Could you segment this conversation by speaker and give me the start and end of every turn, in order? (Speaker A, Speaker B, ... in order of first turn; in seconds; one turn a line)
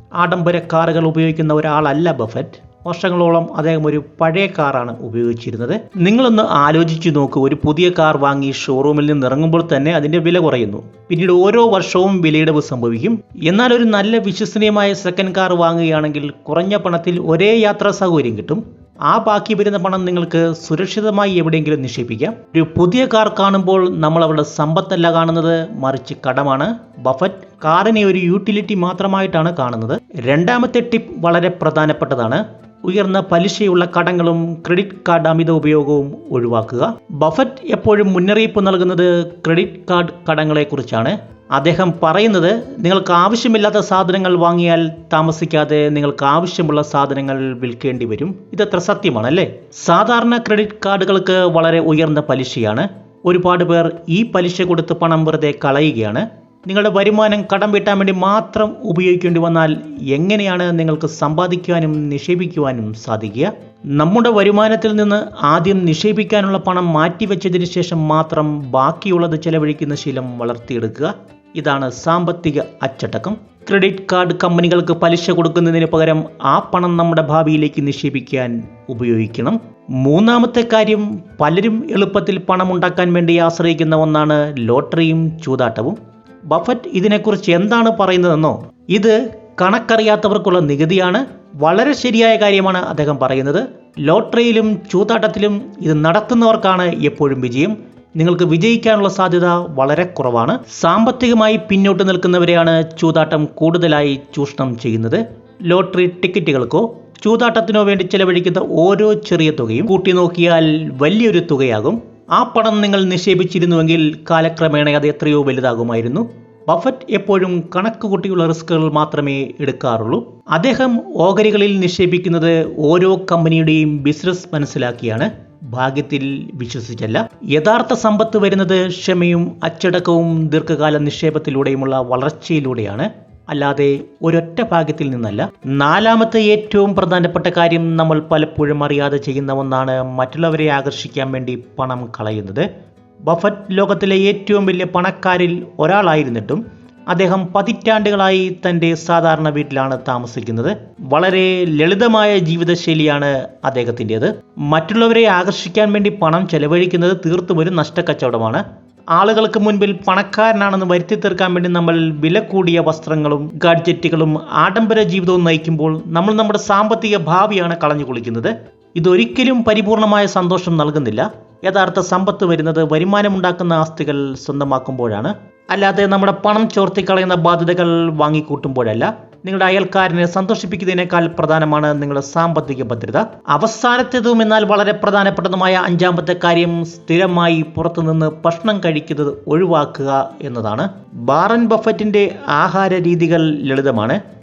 Speaker A: 0.2-86.0
Speaker A: 86.5-142.7
Speaker A: 143.3-158.6
Speaker A: 159.1-194.2